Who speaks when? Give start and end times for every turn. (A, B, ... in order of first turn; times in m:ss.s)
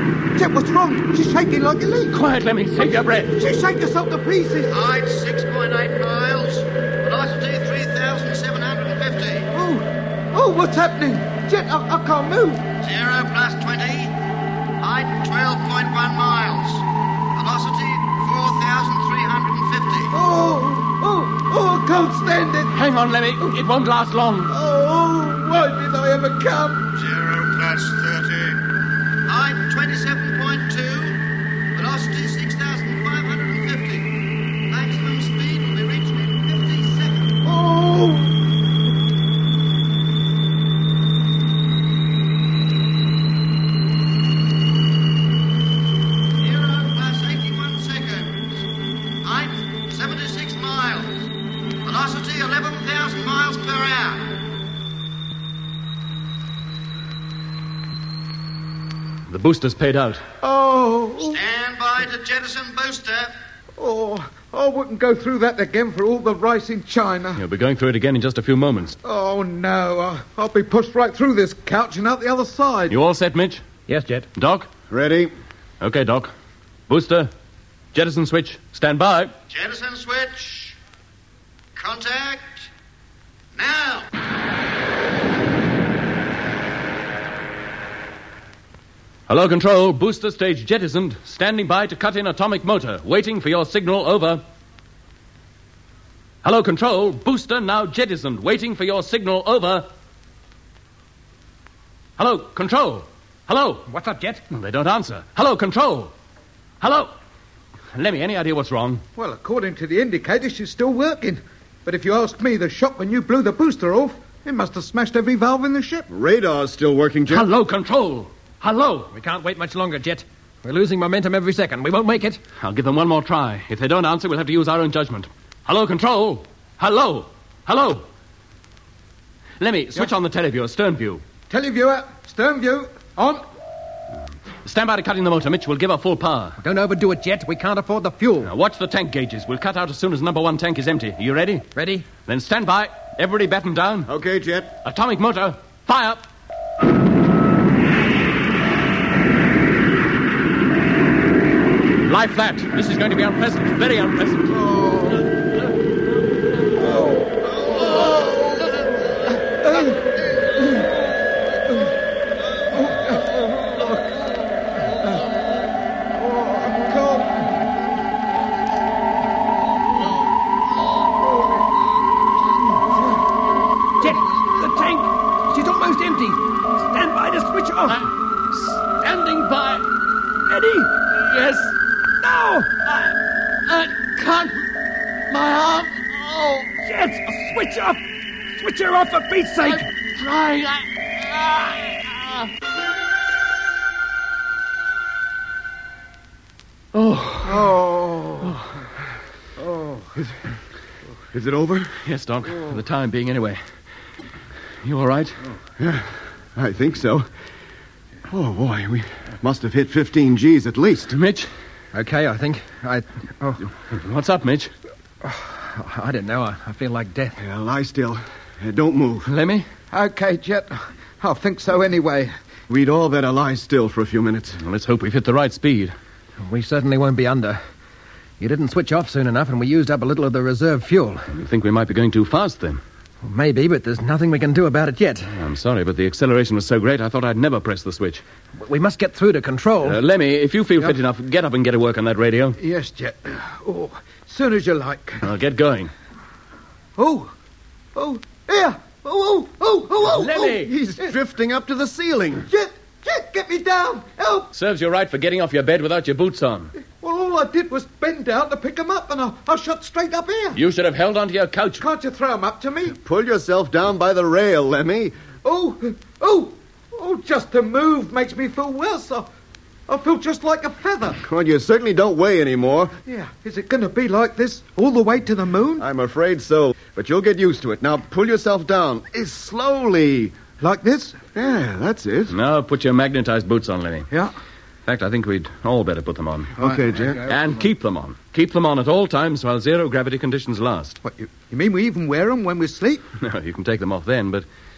0:00.3-0:02.1 A
0:02.1-0:03.4 B
0:02.8-0:04.7 A
0:04.7-0:09.5 C
0:09.5-0:12.7 A
0:12.8-0:14.2 C
0:14.8-0:16.8 C
0:17.3-0:20.1 C
0:20.1-0:22.7 A
0:22.7-0:24.5 B
0:24.5-0:26.9 A
0:26.9-0:28.6 C
0:29.3-0:31.2 C
0:31.7-0:37.3 C
0:37.4-0:38.3 A
0:46.4-0:48.6 C
0:49.2-0:51.3 C
0:51.8-0:54.4 C
0:59.3-1:00.2 B
1:00.4-1:01.4 A
1:01.3-1:03.3 C
1:03.8-1:07.4 A
1:07.4-1:09.0 B
1:09.0-1:12.9 A
1:12.9-1:13.6 B
1:13.9-1:14.3 D
1:14.4-1:14.7 B
1:14.9-1:15.3 E
1:15.8-1:16.3 B
1:16.9-1:17.3 B
1:17.9-1:19.3 B
1:19.5-1:20.8 C
1:21.8-1:22.7 C
1:23.5-1:24.1 C
1:29.3-1:34.4 B
1:36.4-1:39.9 B
1:42.2-1:43.8 B
1:43.9-1:44.4 D
1:44.5-1:46.1 B
1:46.8-1:47.1 B
1:47.9-1:49.0 B
1:49.2-1:56.1 A
1:56.1-1:57.5 E
1:57.3-1:59.1 B
1:59.1-2:02.4 D
2:02.6-2:08.1 B
2:09.6-2:11.2 B
2:11.5-2:13.4 A
2:14.6-2:16.6 B
2:16.6-2:18.5 D
2:18.4-2:21.7 B
2:21.7-2:22.1 D
2:22.2-2:24.1 B
2:24.1-2:24.7 E
2:24.8-2:26.2 B
2:32.0-2:34.7 B
2:34.6-2:35.2 A
2:36.8-2:38.8 A
2:39.5-2:40.8 A
2:41.6-2:41.9 A
2:42.7-2:44.3 A
2:45.0-2:45.2 A
2:46.2-2:47.5 A
2:51.2-2:51.6 A
2:52.6-2:53.2 A
2:54.0-2:58.0 D
2:57.9-2:59.8 B
3:00.5-3:00.9 D
3:01.1-3:01.8 B
3:02.2-3:02.8 D
3:03.7-3:04.7 B
3:05.3-3:06.7 B
3:06.8-3:08.0 D
3:08.6-3:09.9 D
3:09.6-3:12.5 B
3:16.9-3:17.7 B
3:17.7-3:18.4 A
3:21.3-3:22.0 E
3:22.0-3:23.6 B
3:24.8-3:25.5 B
3:25.8-3:27.3 E
3:28.3-3:31.1 E
3:31.1-3:31.5 B
3:31.9-3:33.7 D
3:33.9-3:34.7 B
3:35.2-3:37.4 D
3:37.4-3:39.3 E
3:39.2-3:39.6 B
3:39.9-3:42.3 A
3:42.7-3:44.6 E
3:44.6-3:45.9 B
3:46.4-3:47.6 D
3:48.4-3:51.3 D
3:51.3-3:52.8 B
3:53.2-3:55.4 D
3:55.3-3:58.2 B
3:58.6-4:00.0 D
3:59.8-4:02.6 B
4:02.6-4:05.3 A
4:05.2-4:05.9 B
4:07.0-4:07.3 A
4:07.9-4:11.1 A
4:10.0-4:10.7 B
4:10.7-4:12.5 E
4:12.5-4:14.5 A
4:14.5-4:16.7 B
4:17.0-4:20.6 A
4:20.5-4:21.8 B
4:21.8-4:23.0 A
4:23.0-4:25.1 E
4:25.4-4:29.3 A
4:29.9-4:31.2 A
4:31.2-4:33.0 E
4:33.0-4:35.8 A
4:35.8-4:40.4 E
4:40.6-4:41.2 A
4:41.3-4:42.4 E
4:42.3-4:44.1 B
4:44.8-4:46.5 B
4:46.6-4:46.8 A
4:46.6-4:47.2 E
4:47.2-4:51.0 B
4:51.0-4:53.0 A
4:53.2-4:54.4 B